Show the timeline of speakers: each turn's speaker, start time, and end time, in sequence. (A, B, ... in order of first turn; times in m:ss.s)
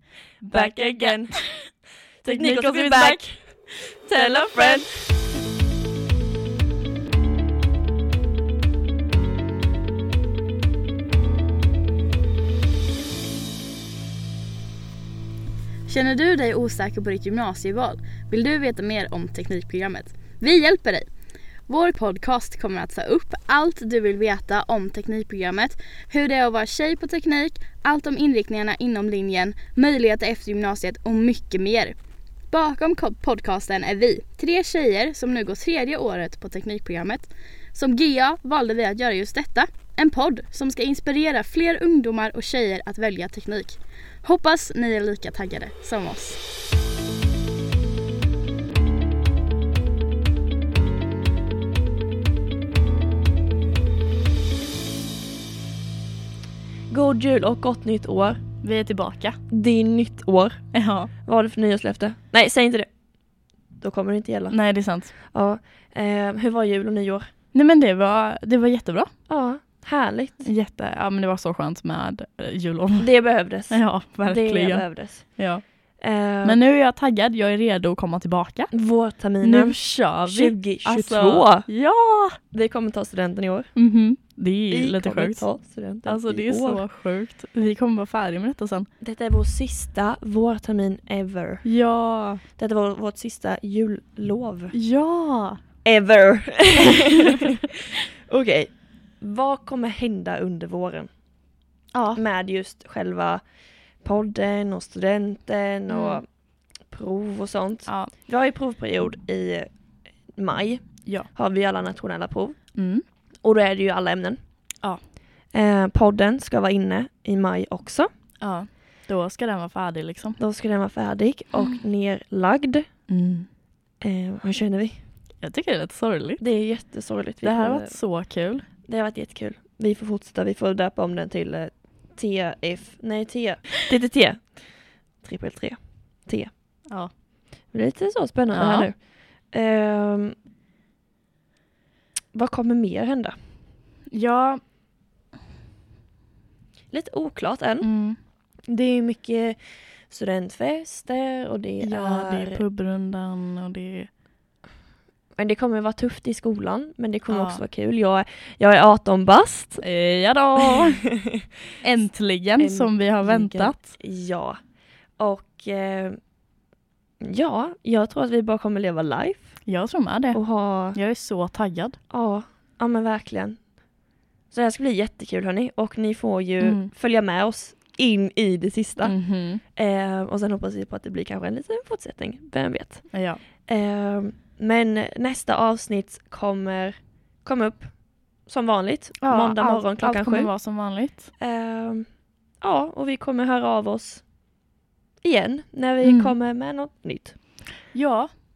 0:00.4-0:01.4 A
0:00.5-0:01.4 B
0:02.2-0:03.4 B
0:02.2-0:03.2 A
0:04.0-0:04.8 A
0:04.1-0:05.1 B
0:15.8-0:21.1 A
0:21.7-0:32.0 A
0:32.5-0:46.4 A
0:56.9-0:58.4 B
0:58.6-0:59.4 A
0:59.5-1:00.6 B
1:00.7-1:01.1 A
1:01.2-1:02.9 B
1:03.8-1:04.6 B
1:04.5-1:05.1 A
1:05.3-1:07.3 B
1:07.5-1:09.1 A
1:09.3-1:10.5 B
1:10.4-1:13.1 A
1:13.0-1:15.3 B
1:13.7-1:15.6 A
1:16.0-1:16.6 B
1:16.4-1:18.7 A
1:18.7-1:21.7 B
1:19.4-1:22.4 A
1:22.5-1:23.7 B
1:23.7-1:25.5 A
1:24.7-1:26.8 B
1:26.0-1:28.9 A
1:29.0-1:31.6 B
1:31.6-1:32.4 A
1:32.6-1:34.7 B
1:34.7-1:35.6 A
1:35.8-1:37.5 B
1:38.2-1:41.1 B
1:41.9-1:42.2 A
1:42.1-1:43.5 B
1:44.0-1:49.7 B
1:45.9-1:46.2 A
1:47.9-1:48.1 A
1:50.3-1:52.6 B
1:52.7-1:53.0 A
1:53.4-1:54.4 B
1:55.5-1:58.1 B
1:58.4-2:00.4 A
2:00.4-2:02.8 B
2:03.1-2:03.5 A
2:04.0-2:05.0 B
2:05.4-2:06.4 A
2:06.4-2:08.0 B
2:07.4-2:08.6 A
2:08.8-2:16.5 B
2:17.7-2:20.3 B
2:18.5-2:18.9 A
2:22.3-2:23.3 B
2:24.1-2:24.6 A
2:26.9-2:27.9 B
2:27.8-2:28.2 A
2:28.7-2:32.6 B
2:31.8-2:34.1 A
2:35.4-2:39.8 B
2:37.3-2:37.6 A
2:39.8-2:41.1 A
2:40.8-2:41.4 B
2:41.8-2:43.8 A
2:42.6-2:44.6 B
2:45.2-2:46.2 B
2:47.2-2:49.6 B
2:49.6-2:52.0 A
2:50.3-2:51.0 B
2:52.1-2:53.8 B
2:54.5-3:10.5 B
2:56.6-2:56.9 A
2:59.0-2:59.6 A
3:03.1-3:03.4 A
3:09.2-3:11.3 A
3:11.4-3:14.3 B
3:15.2-3:17.4 B
3:16.0-3:16.3 A
3:17.9-3:18.3 A